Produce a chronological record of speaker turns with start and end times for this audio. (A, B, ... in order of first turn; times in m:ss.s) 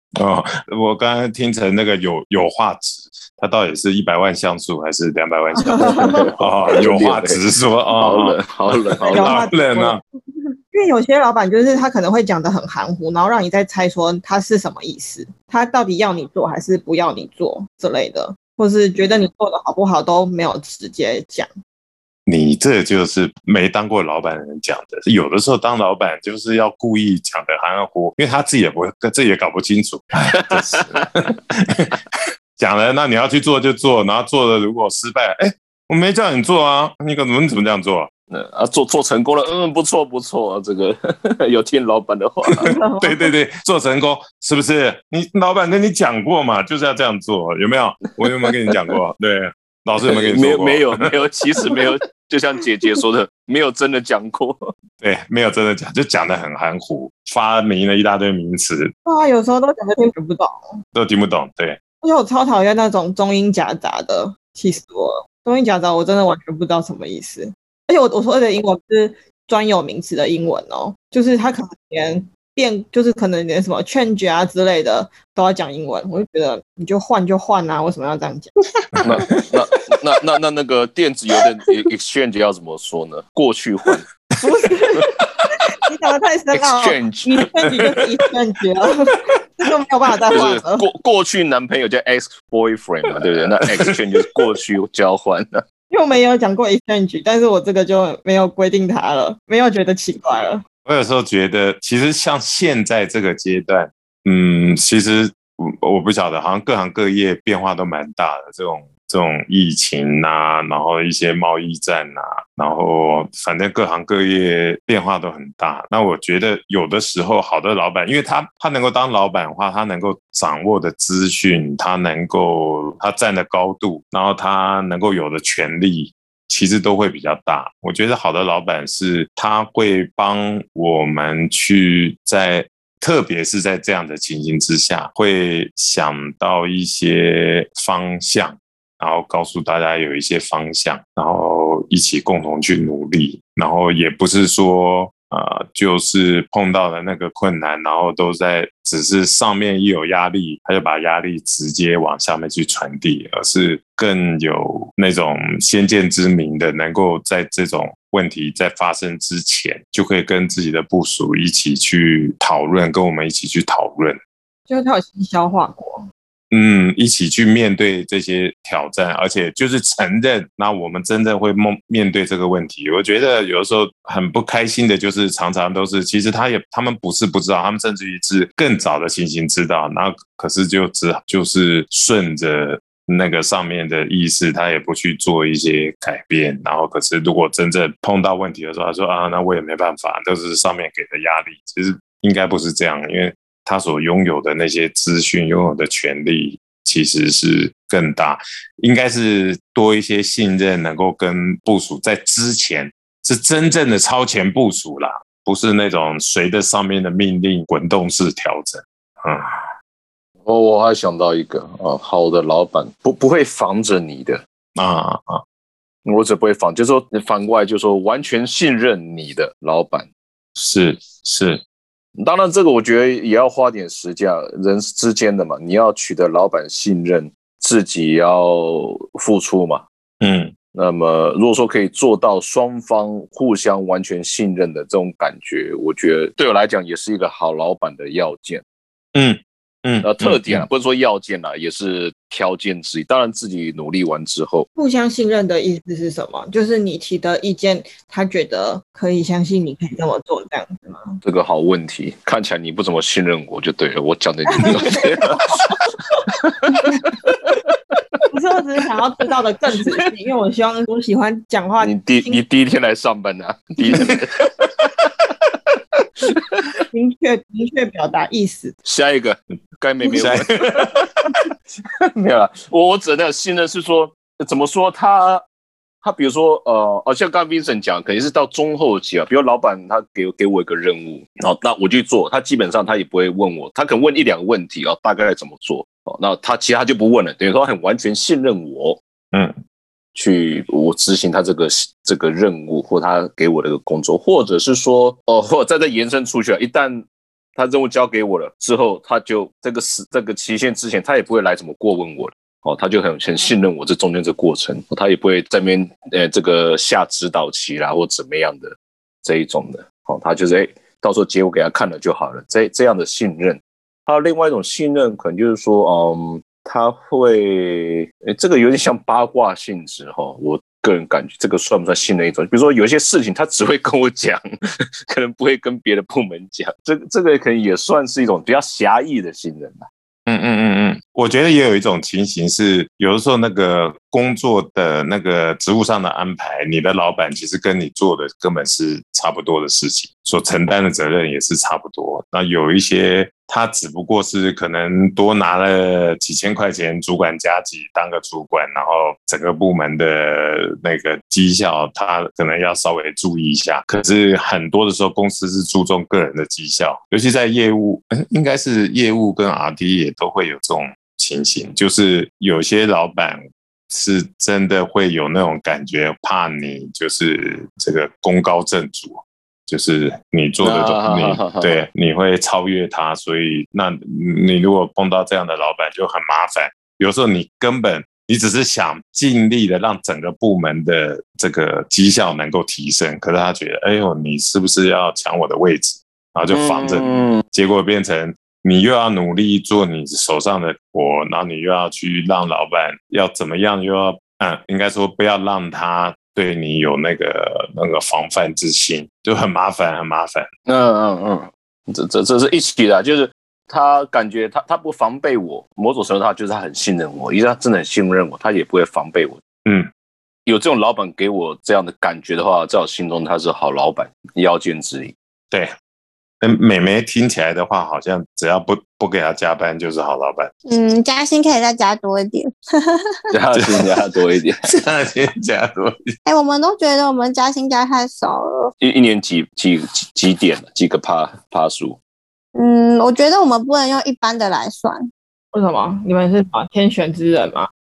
0:00.2-0:08.4 A
0:05.6-0:06.3 B
0:05.8-0:07.4 C
0:08.0-0:09.5 C
0:09.1-0:10.0 B
0:09.1-0:10.0 A
0:10.7-0:21.5 B
0:22.3-0:31.9 A
0:30.5-0:31.0 C
0:32.6-0:38.1 A
0:38.3-0:42.7 C
0:42.6-0:43.3 B
0:43.0-0:51.0 A
0:50.1-0:54.7 C
0:55.0-0:58.9 A
0:59.0-1:00.5 B
1:01.0-1:01.8 A
1:02.0-1:18.5 B
1:19.0-1:24.1 C
1:24.4-1:25.0 B
1:25.8-1:30.8 B
1:26.5-1:28.0 C
1:30.3-1:35.6 C
1:35.9-1:40.6 B
1:40.9-2:44.2 A
2:44.7-2:46.1 B
2:46.5-3:29.5 A
3:30.4-3:34.4 C
3:34.8-3:35.4 A
3:36.0-3:40.1 C
3:40.6-3:41.6 A
3:42.2-3:49.8 C
3:50.2-3:50.5 A
3:50.7-3:58.6 C
3:59.2-4:00.7 A
4:00.0-4:04.7 C
4:04.8-4:11.2 B
4:11.2-4:15.8 C
4:14.6-4:15.0 B
4:16.3-4:17.6 C
4:18.3-4:22.4 B
4:21.8-4:25.1 C
4:26.9-4:28.8 B
4:28.8-4:31.4 C
4:30.1-4:30.4 A
4:32.0-4:35.4 C
4:36.0-4:49.0 C
4:50.1-4:57.0 C
4:57.6-5:24.4 C
5:25.1-5:29.8 C
5:30.3-6:03.4 A
6:03.9-6:40.5 A
6:10.6-6:11.8 C
6:26.5-6:27.4 C
6:40.7-6:49.4 C
6:50.5-6:55.1 C
6:56.4-7:00.5 A
7:00.7-7:03.2 D
7:03.3-7:04.6 C
7:04.6-7:06.0 A
7:06.3-7:08.7 D
7:08.8-7:12.0 C
7:12.6-7:15.1 D
7:15.5-7:17.7 B